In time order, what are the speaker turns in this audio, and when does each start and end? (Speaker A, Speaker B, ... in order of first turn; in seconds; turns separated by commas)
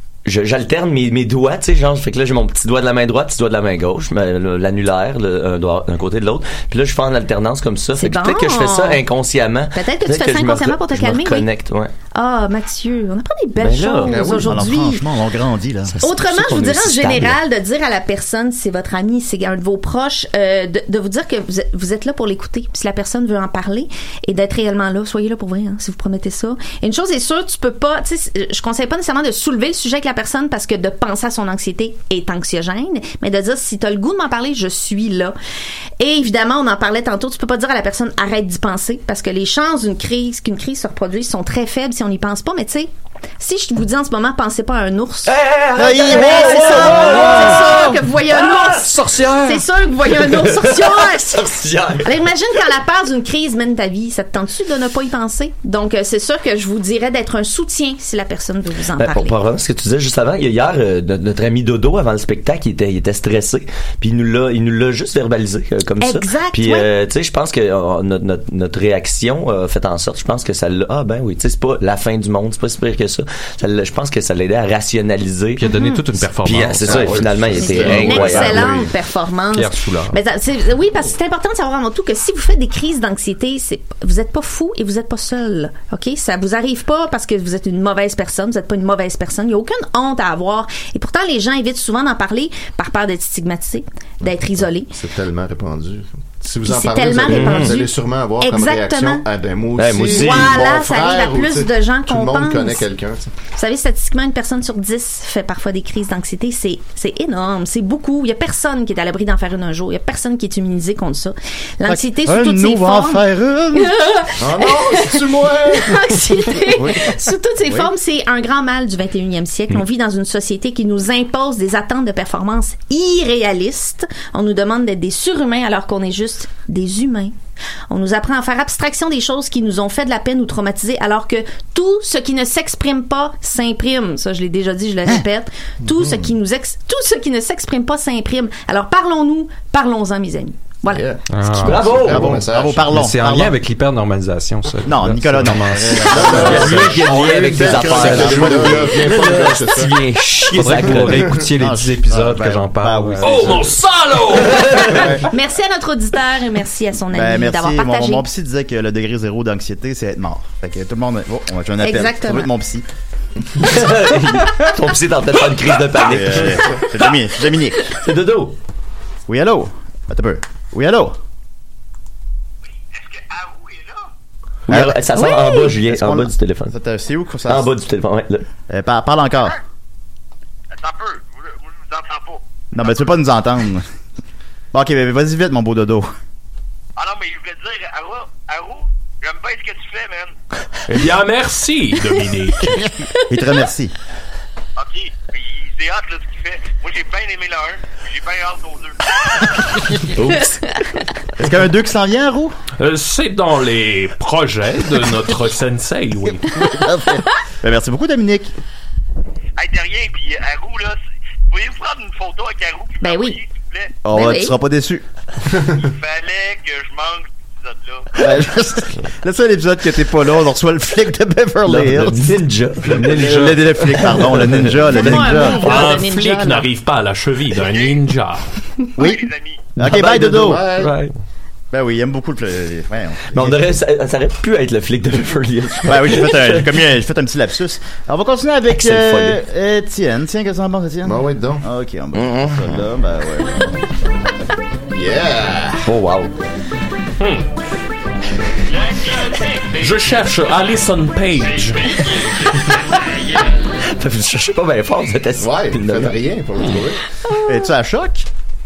Speaker A: 0.2-11.9, Speaker B: 8.0-9.0, Speaker B: 9.7-11.5, Speaker B: 12.2-15.1, Speaker A: 13.6-14.3, Speaker C: 14.1-14.7, Speaker D: 14.4-15.9, Speaker A: 15.9-17.4, Speaker B: 16.0-35.4, Speaker B: 36.0-45.3, Speaker A: 45.3-48.0, Speaker D: 45.8-47.4, Speaker B: 45.9-59.4, Speaker E: 48.0-49.6, Speaker A: 48.5-48.8, Speaker A: 50.1-52.3, Speaker A: 59.0-78.9, Speaker B: 66.0-66.9, Speaker E: 75.6-78.4, Speaker B: 75.6-76.0, Speaker C: 76.8-78.9, Speaker B: 77.6-94.9, Speaker E: 79.5-80.2, Speaker C: 94.2-103.3, Speaker B: 96.7-99.2, Speaker A: 97.3-97.8, Speaker A: 99.8-100.6, Speaker B: 100.1-102.8, Speaker B: 103.5-127.3, Speaker D: 111.9-113.9, Speaker C: 114.4-116.0, Speaker D: 116.7-117.9, Speaker B: 127.9-141.0, Speaker C: 135.8-136.3, Speaker C: 140.9-142.9, Speaker E: 141.3-142.3, Speaker A: 141.6-142.3, Speaker D: 141.8-143.6, Speaker E: 142.9-148.5, Speaker D: 144.9-149.3, Speaker C: 146.1-150.0, Speaker A: 146.3-151.4, Speaker E: 150.5-153.5, Speaker C: 150.7-151.3, Speaker D: 151.1-153.8, Speaker F: 153.2-154.9, Speaker A: 154.4-155.2, Speaker D: 154.9-155.3, Speaker B: 155.3-158.2, Speaker D: 157.1-162.8, Speaker B: 161.8-162.5, Speaker A: 163.6-166.8, Speaker D: 166.0-167.9, Speaker A: 167.9-168.5, Speaker D: 169.3-171.2, Speaker G: 173.0-174.1, Speaker A: 174.7-176.8, Speaker D: 174.7-175.0, Speaker B: 175.2-175.7, Speaker D: 175.8-177.7, Speaker A: 177.5-178.5, Speaker D: 178.7-179.6, Speaker G: 180.7-182.4, Speaker D: 182.7-183.9, Speaker D: 184.7-186.1, Speaker G: 187.0-190.3, Speaker F: 190.9-192.9, Speaker D: 193.3-193.9, Speaker G: 194.8-199.7, Speaker D: 201.4-202.5, Speaker F: 202.8-206.8, Speaker D: 206.6-208.5, Speaker G: 209.6-211.0, Speaker G: 211.5-214.0, Speaker B: 213.0-213.4, Speaker D: 214.0-215.0, Speaker B: 214.1-214.6, Speaker G: 215.7-218.2, Speaker D: 218.2-225.8, Speaker A: 221.7-226.0, Speaker F: 222.9-224.1, Speaker B: 224.9-226.7, Speaker F: 225.6-228.5, Speaker D: 229.0-230.6, Speaker G: 229.0-229.8, Speaker A: 229.8-231.1, Speaker C: 230.2-230.9, Speaker E: 230.8-231.1, Speaker D: 231.7-233.6, Speaker A: 233.3-236.7, Speaker D: 235.8-243.8, Speaker A: 238.7-239.4, Speaker C: 241.1-241.6, Speaker A: 242.2-242.7, Speaker C: 244.9-245.9, Speaker A: 245.8-246.3, Speaker F: 247.2-247.5, Speaker F: 249.8-252.2, Speaker A: 254.0-256.2, Speaker C: 255.4-257.0, Speaker D: 257.4-258.3